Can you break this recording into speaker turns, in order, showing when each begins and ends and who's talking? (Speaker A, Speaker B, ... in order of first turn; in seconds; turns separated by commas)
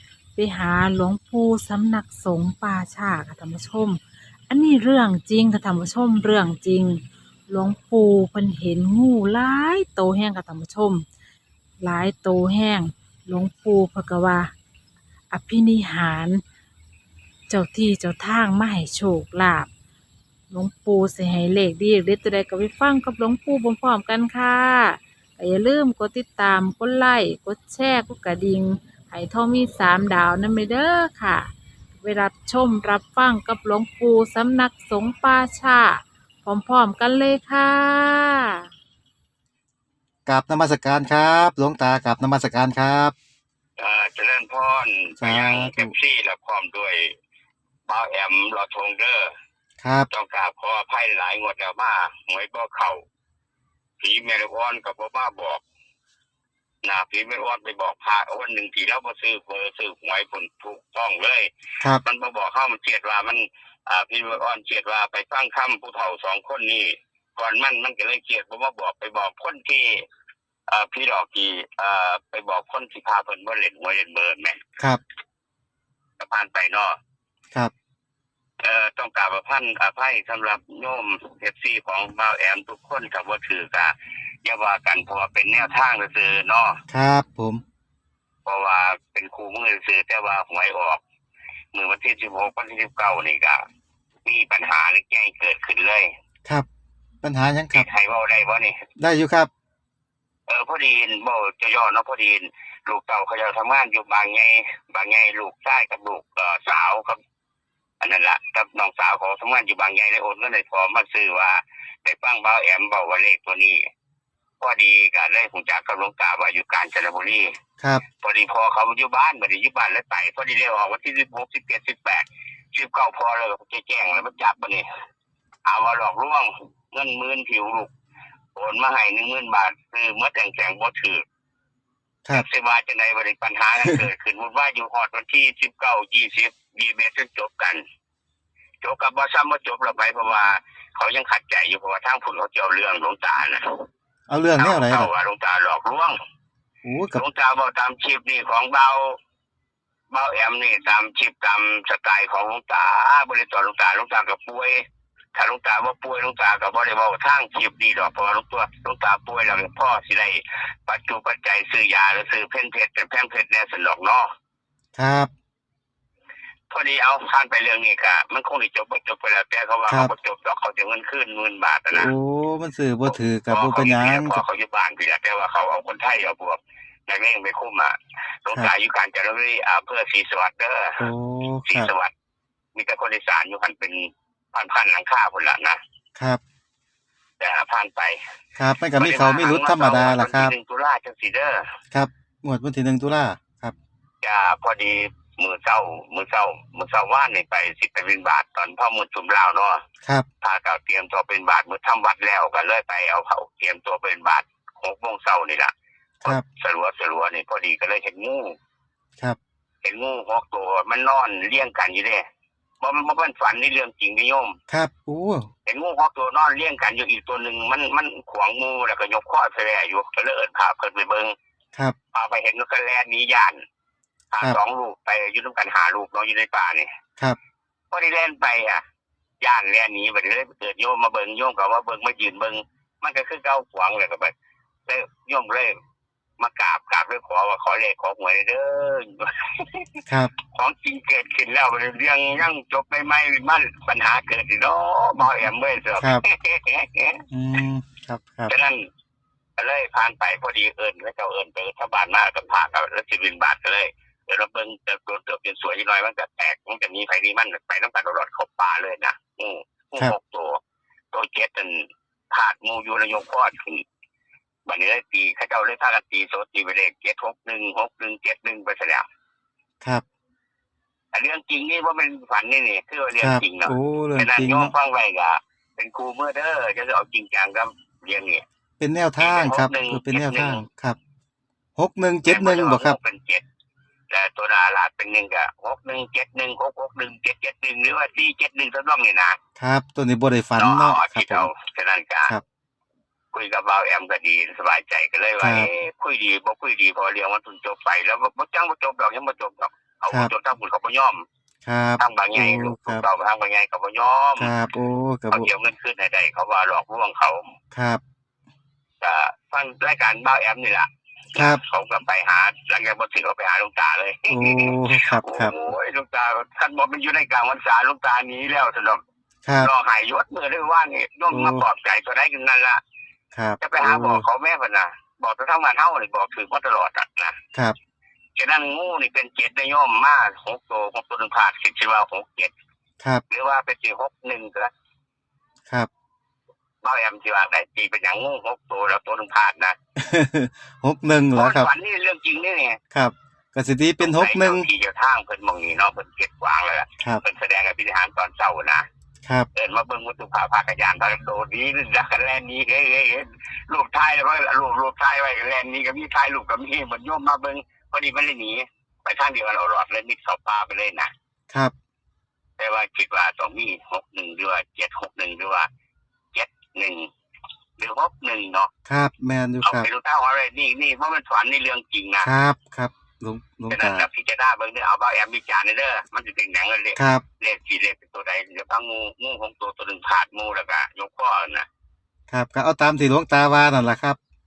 Speaker A: 0.3-11.1, Speaker A: 11.8-14.5, Speaker A: 15.3-16.4, Speaker A: 17.5-19.7, Speaker A: 20.5-38.6, Speaker B: 40.2-43.1, Speaker C: 43.8-47.1, Speaker B: 45.2-45.9, Speaker C: 47.9-49.3, Speaker B: 49.8-50.1, Speaker C: 50.1-53.0, Speaker C: 54.0-55.6, Speaker C: 56.8-61.5, Speaker C: 62.0-70.0, Speaker C: 70.7-74.6, Speaker C: 76.2-77.0, Speaker C: 78.6-83.9, Speaker C: 84.4-86.8, Speaker B: 86.9-87.6, Speaker C: 88.5-91.0, Speaker C: 91.7-93.6, Speaker C: 94.2-96.1, Speaker B: 97.2-97.8, Speaker C: 97.7-98.8, Speaker B: 99.0-99.5, Speaker C: 100.5-107.2, Speaker C: 108.0-113.8, Speaker C: 114.6-117.5, Speaker C: 118.2-124.8, Speaker C: 125.7-127.9, Speaker C: 128.6-131.2, Speaker C: 132.3-137.8, Speaker C: 138.8-143.9, Speaker B: 144.3-145.1, Speaker C: 144.6-146.1, Speaker B: 146.8-147.2, Speaker C: 147.1-149.2, Speaker C: 150.1-154.8, Speaker C: 155.3-164.3, Speaker B: 164.9-165.3, Speaker C: 166.7-172.1, Speaker B: 171.9-174.4, Speaker C: 173.1-181.1, Speaker B: 181.0-181.9, Speaker C: 181.7-182.1, Speaker C: 182.7-185.8, Speaker B: 186.2-186.4, Speaker C: 187.4-188.2, Speaker B: 188.6-190.5, Speaker C: 189.0-191.7, Speaker B: 191.9-193.7, Speaker C: 194.2-199.8, Speaker C: 200.4-208.6, Speaker C: 209.8-212.2, Speaker C: 212.8-214.6, Speaker B: 214.7-215.5, Speaker C: 215.7-221.3, Speaker C: 222.1-223.6, Speaker C: 224.3-226.9, Speaker C: 227.9-228.8, Speaker C: 229.4-234.3, Speaker C: 234.9-235.7, Speaker C: 236.4-240.0, Speaker C: 240.5-247.2, Speaker B: 246.0-246.2, Speaker B: 247.3-248.5, Speaker C: 248.5-248.8, Speaker C: 249.6-260.6, Speaker C: 261.1-263.8, Speaker C: 264.6-269.0, Speaker C: 271.1-278.4, Speaker B: 273.2-274.7, Speaker B: 278.8-281.0, Speaker C: 279.2-280.6, Speaker B: 281.8-283.0, Speaker C: 282.2-283.4, Speaker C: 284.1-289.4, Speaker B: 289.6-291.5, Speaker C: 290.6-292.3, Speaker C: 293.3-301.2, Speaker B: 295.4-295.7, Speaker B: 301.6-303.0, Speaker C: 302.0-304.5, Speaker B: 304.4-305.5, Speaker C: 305.3-307.5, Speaker B: 307.7-308.0, Speaker C: 309.0-319.0, Speaker B: 311.3-311.6, Speaker B: 314.3-315.5, Speaker B: 319.4-319.7, Speaker C: 319.6-322.8, Speaker B: 321.3-321.6, Speaker B: 323.3-324.2, Speaker C: 323.6-327.4, Speaker C: 328.4-332.5, Speaker C: 333.3-334.7, Speaker C: 336.8-339.8, Speaker B: 340.0-341.7, Speaker C: 341.4-342.8, Speaker B: 342.9-344.7, Speaker C: 344.0-348.8, Speaker C: 349.5-361.1, Speaker C: 362.6-365.7, Speaker C: 366.3-367.1, Speaker C: 367.8-368.7, Speaker B: 368.9-369.9, Speaker C: 369.6-372.3, Speaker B: 372.2-374.1, Speaker C: 373.7-381.7, Speaker B: 376.9-377.2, Speaker B: 382.3-384.2